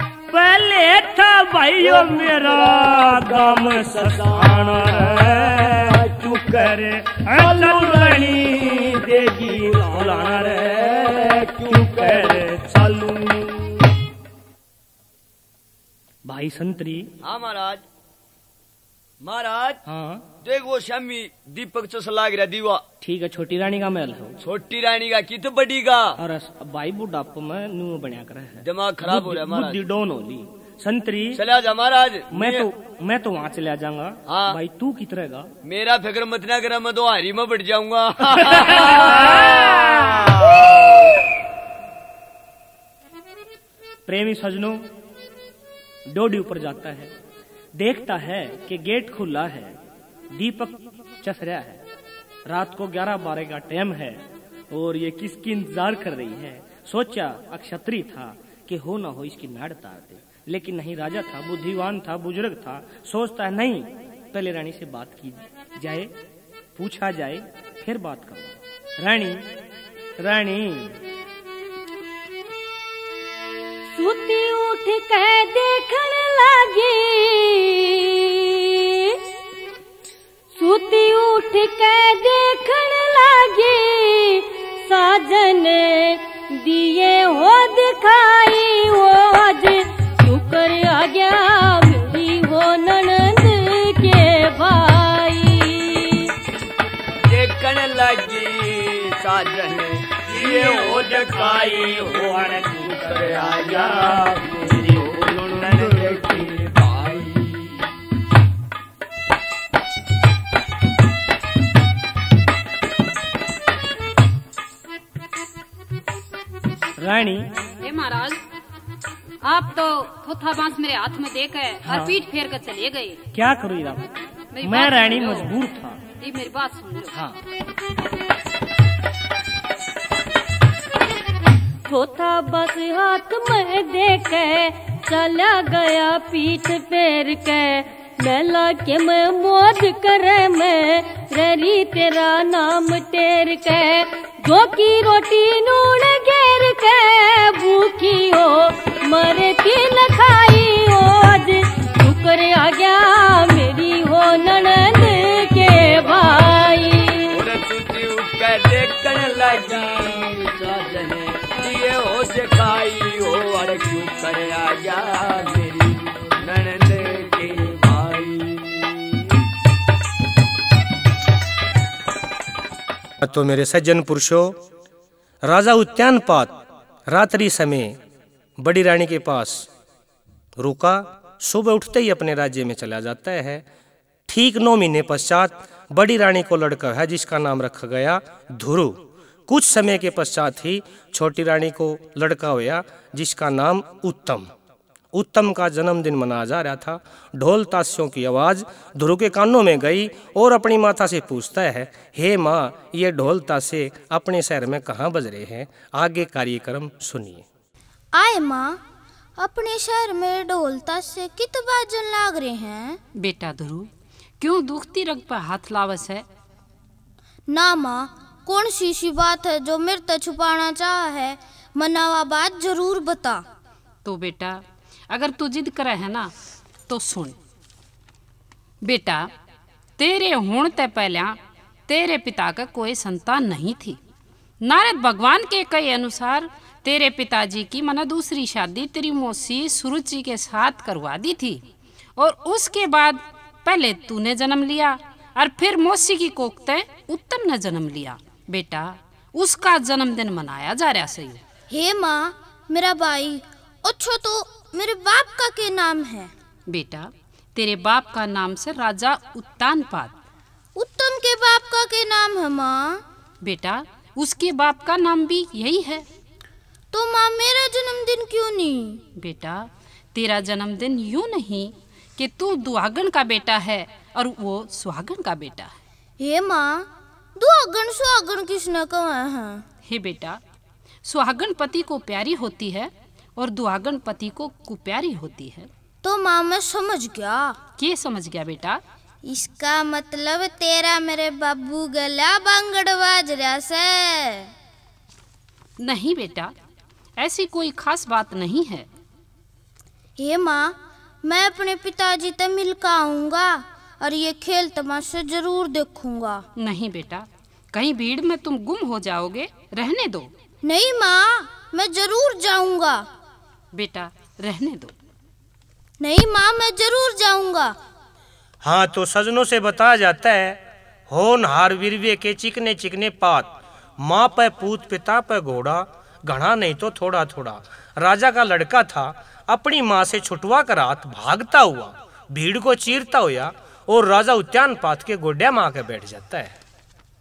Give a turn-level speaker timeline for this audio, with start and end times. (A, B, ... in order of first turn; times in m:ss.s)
0:00.3-0:13.8 A
0:01.8-0:06.8 B
0:07.3-0:12.5 B
0:16.2-0:17.1 A
0:17.2-0:17.8 B
0:19.2-0:19.8 B
0:19.9-0:20.2 A
0:20.4-0:22.8 B
0:23.0-0:24.4 A
0:24.4-0:26.2 B
0:26.2-0:31.4 A
0:28.6-0:29.8 B
0:31.4-0:32.7 B
0:32.3-0:35.5 A
0:34.3-0:34.6 B
0:35.6-0:41.2 B
0:38.4-0:39.6 A
0:44.1-0:44.8 A
0:46.1-0:47.1 A
0:47.8-0:49.8 A
0:50.3-0:51.8 A
0:52.5-1:06.1 A
1:06.8-1:09.4 A
1:10.2-1:11.0 A
1:13.9-1:19.2 C
1:20.6-1:36.3 C
1:37.2-1:47.8 B
1:40.3-1:46.5 A
1:57.0-1:57.5 A
1:57.8-1:58.4 D
1:59.4-2:03.2 D
2:01.8-2:02.2 A
2:03.3-2:04.0 A
2:04.5-2:05.5 D
2:04.6-2:06.0 A
2:06.2-2:07.2 D
2:07.1-2:07.4 A
2:11.8-2:37.4 C
2:37.3-2:49.3 B
2:53.2-2:54.6 A
2:55.4-2:56.6 A
2:57.1-2:58.0 A
2:58.6-2:59.7 A
3:00.6-3:03.7 A
3:04.3-3:14.5 A
3:15.1-3:27.5 A
3:28.1-3:28.8 E
3:29.4-3:33.0 E
3:33.2-3:36.3 D
3:37.5-3:43.4 E
3:44.0-3:46.3 D
3:46.9-3:47.4 D
3:48.8-3:49.3 D
3:50.0-3:54.0 D
3:54.6-4:01.6 D
4:02.2-4:11.4 D
4:11.7-4:16.3 E
4:16.7-4:20.1 D
4:20.8-4:23.0 E
4:23.4-4:26.0 D
4:26.9-4:29.0 E
4:29.2-4:35.8 D
4:36.2-4:39.6 E
4:39.9-4:40.4 D
4:41.0-4:45.7 D
4:46.0-4:47.6 E
4:47.8-4:48.8 D
4:49.2-4:54.5 E
4:55.8-4:56.5 D
4:57.2-4:58.9 D
5:00.2-5:06.5 E
5:06.6-5:10.3 D
5:10.6-5:13.1 E
5:13.7-5:14.9 D
5:16.0-5:17.8 E
5:18.6-5:36.6 A